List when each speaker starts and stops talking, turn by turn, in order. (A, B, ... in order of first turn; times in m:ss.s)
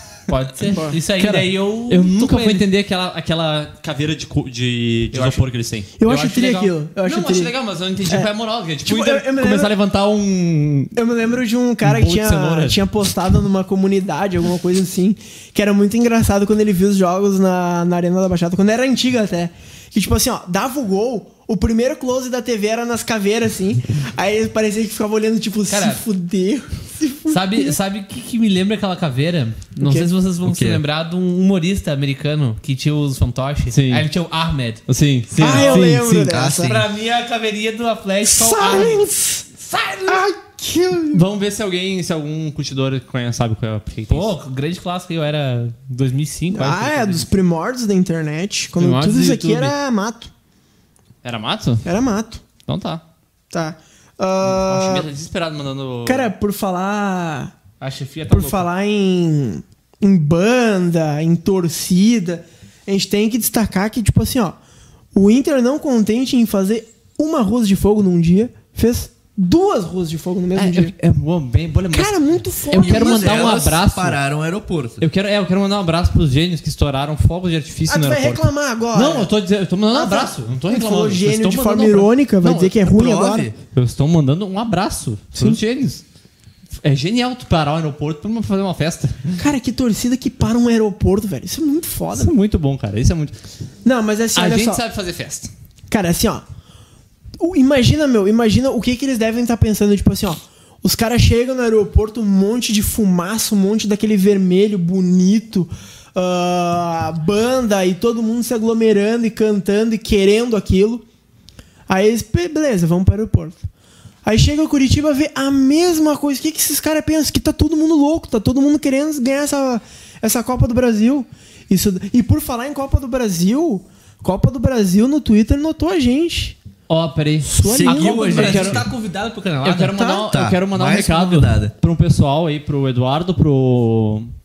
0:00.3-0:02.7 A
0:00.7-0:01.0 B
0:01.1-0:11.0 C
0:05.1-0:05.4 A
0:06.0-0:08.3 B
0:08.8-0:09.7 B
0:11.0-0:27.7 B
0:11.8-0:12.8 C
0:25.7-0:26.0 A
0:27.3-0:40.3 A
0:29.8-0:30.1 B
0:30.4-0:30.8 D
0:33.7-0:34.1 C
0:34.9-0:36.2 C
0:35.4-0:36.7 B
0:36.2-0:36.9 D
0:38.2-0:39.4 B
0:40.0-0:41.2 B
0:41.1-0:44.3 C
0:44.1-0:47.3 A
0:46.5-0:50.3 B
0:48.8-0:49.7 A
0:51.2-0:51.8 C
0:51.8-0:52.4 B
0:52.7-0:53.0 C
0:53.5-0:55.1 B
0:54.4-0:56.3 C
0:56.0-0:57.5 B
0:57.8-0:58.7 A
0:58.3-1:04.6 B
1:05.1-1:10.9 B
1:10.5-1:12.1 C
1:11.9-1:13.5 B
1:12.7-1:14.2 C
1:12.8-1:15.0 D
1:15.0-1:22.7 C
1:17.9-1:19.3 B
1:19.9-1:23.5 B
1:22.8-1:23.5 D
1:23.7-1:26.0 C
1:25.3-1:25.6 B
1:26.8-1:29.4 C
1:29.4-1:32.3 B
1:32.1-1:33.4 C
1:33.8-1:34.8 B
1:34.3-1:35.5 C
1:35.9-1:36.4 B
1:37.4-1:51.0 B
1:51.9-1:53.6 B
1:54.2-2:06.6 B
2:06.9-2:07.8 C
2:07.4-2:08.7 B
2:07.8-2:09.9 A
2:07.8-2:08.9 D
2:08.3-2:08.8 C
2:09.6-2:14.3 C
2:09.9-2:10.3 B
2:10.3-2:11.7 D